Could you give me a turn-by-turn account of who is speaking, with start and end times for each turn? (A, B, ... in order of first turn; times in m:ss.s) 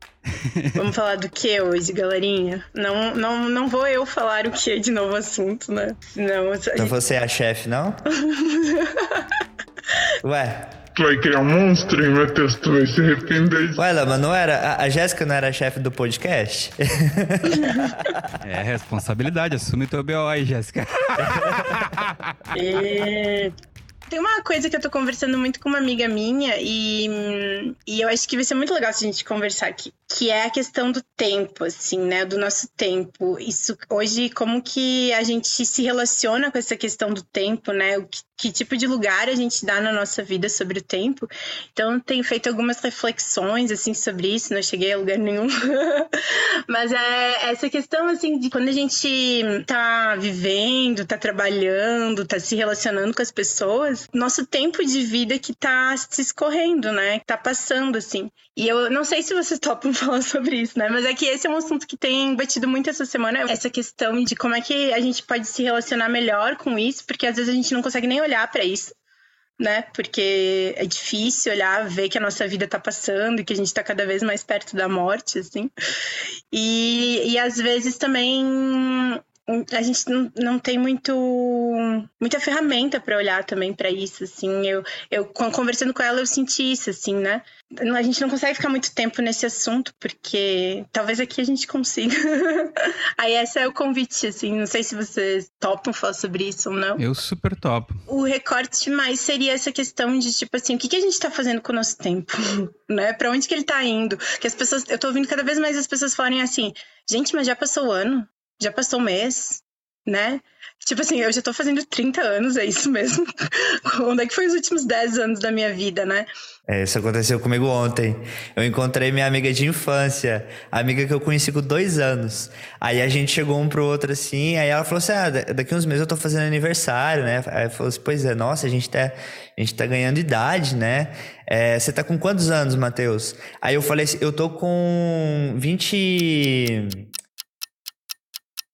0:00.3-0:00.8 A
0:00.8-0:07.0 B
0:06.8-0:08.0 C
0:08.2-0:09.3 B
0:10.2-0:10.8 C
0:11.0-0:13.8 D
0:13.8-0:18.4 C
0:17.6-0:17.9 B
0:18.4-0:22.2 A
0:21.2-0:21.8 C
0:22.5-0:23.5 B
0:24.1-0:46.2 B
0:46.7-1:08.9 B
1:09.6-1:15.7 B
1:16.5-1:37.0 B
1:37.0-1:38.0 A
1:38.1-1:53.3 B
1:53.8-1:56.3 B
1:56.7-2:17.1 C